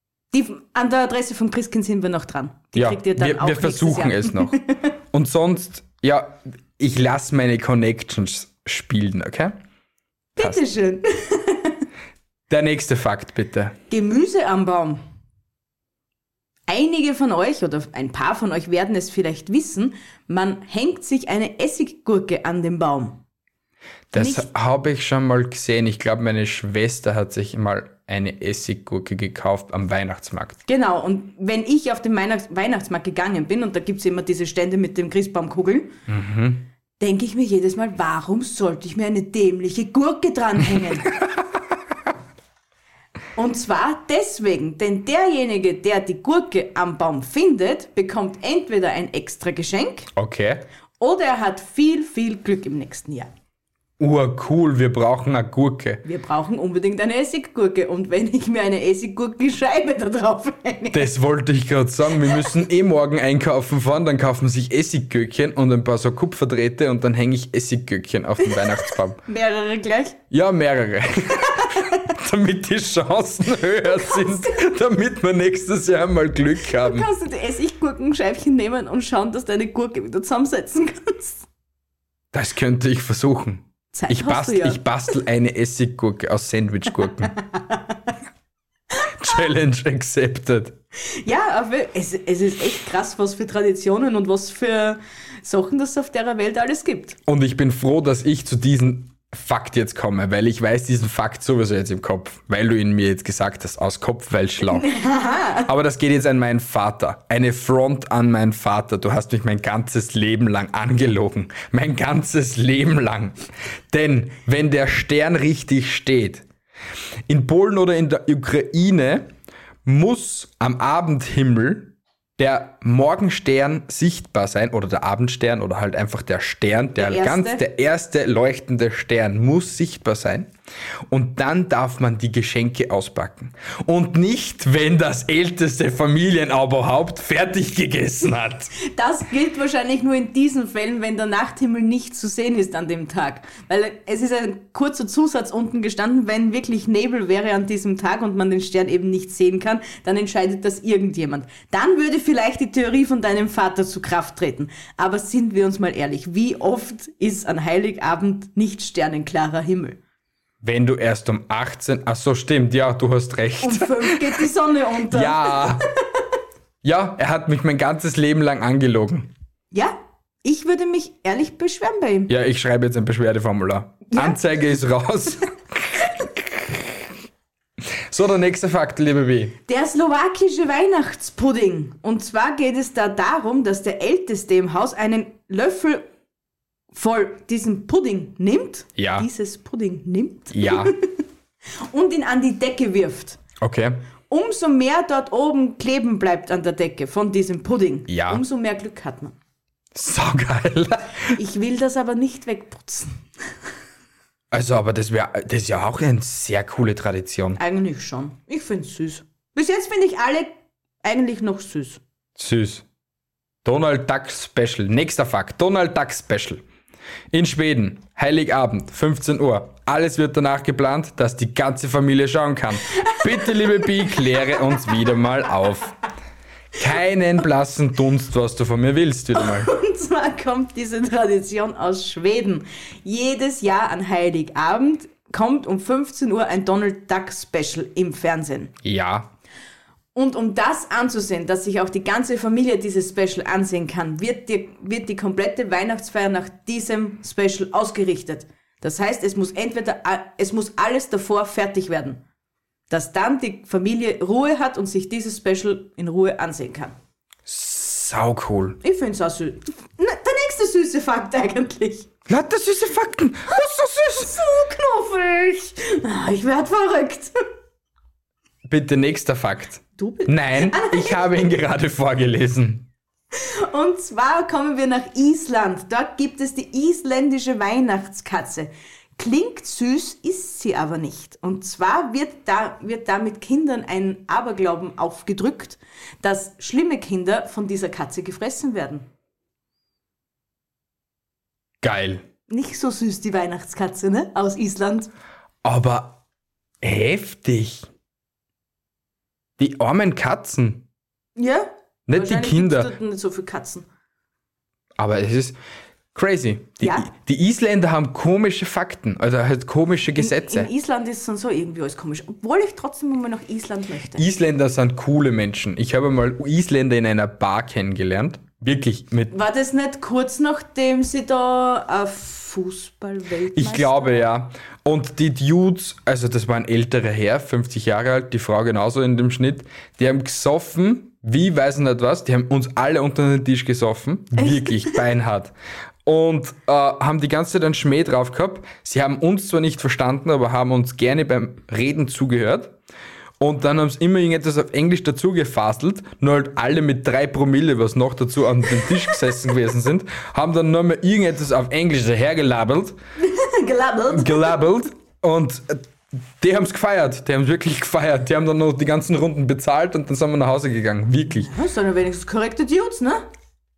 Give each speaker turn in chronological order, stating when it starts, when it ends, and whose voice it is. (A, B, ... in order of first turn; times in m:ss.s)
0:00.3-0:04.8 A
0:02.7-0:04.6 B
0:05.1-0:09.6 B
0:10.4-0:11.8 A
0:12.5-0:13.8 B
0:13.9-0:15.0 A
0:16.7-0:23.2 A
0:24.1-0:30.6 B
0:24.1-0:24.5 A
0:30.6-0:35.9 A
0:36.1-0:36.6 B
0:37.0-0:41.1 A
0:43.4-0:50.1 A
0:50.1-0:50.6 B
0:51.0-0:53.3 A
0:54.0-0:56.0 B
0:56.0-1:01.1 A
1:00.9-1:09.2 B
1:08.6-1:10.2 A
1:10.3-1:17.1 B
1:16.7-1:21.4 A
1:22.3-1:27.3 B
1:23.9-1:24.8 A
1:27.5-1:27.8 A
1:29.0-1:30.8 B
1:31.2-1:37.2 A
1:37.3-1:44.9 B
1:44.6-1:45.7 A
1:45.6-1:53.4 B
1:53.9-1:56.4 B
1:57.3-1:59.3 B
1:59.8-2:10.5 B
2:07.0-2:07.6 A
2:11.1-2:18.7 B
2:18.8-2:40.0 A
2:40.6-2:44.4 B
2:43.6-2:46.0 A
2:45.1-2:45.9 B
2:46.8-2:49.3 B
2:49.7-2:52.3 A
2:52.3-2:57.0 B
2:54.1-2:54.4 A
2:58.1-2:59.6 B
2:59.7-3:06.1 A
3:06.9-3:11.1 A
3:09.0-3:09.3 B
3:10.5-3:10.9 B
3:11.8-3:13.4 A
3:13.6-3:14.0 B
3:14.3-3:19.3 A
3:18.1-3:18.4 B
3:19.9-3:21.3 B
3:21.3-3:23.2 A
3:24.5-3:27.6 B
3:27.6-3:32.0 A
3:32.4-3:32.8 B
3:33.6-3:36.6 B
3:37.3-3:46.0 B
3:42.9-3:44.6 A
3:46.8-3:49.7 B
3:49.3-3:58.7 A
3:58.8-3:59.3 B
4:00.1-4:12.2 A
4:12.9-4:16.9 A
4:17.4-4:18.8 B
4:18.8-4:22.1 A
4:22.3-4:24.4 B
4:24.0-4:27.3 A
4:28.6-4:32.9 B
4:30.0-4:31.2 A
4:33.3-4:49.0 A
4:51.8-4:52.2 B
4:52.5-4:55.1 A
4:55.6-4:56.2 B
4:56.8-4:57.9 B
4:59.6-5:00.8 B
5:01.4-5:03.8 A
5:02.1-5:02.9 B
5:05.0-5:05.6 B
5:06.1-5:10.7 B
5:06.8-5:07.1 A
5:10.2-5:14.2 A
5:14.2-5:19.3 B
5:19.3-5:24.2 A
5:23.5-5:35.5 B
5:34.4-5:35.0 A
5:36.0-5:42.8 B
5:43.4-5:53.0 B
5:53.2-5:54.7 A
5:54.1-5:55.8 B
5:56.4-6:01.5 B
6:01.3-6:03.2 A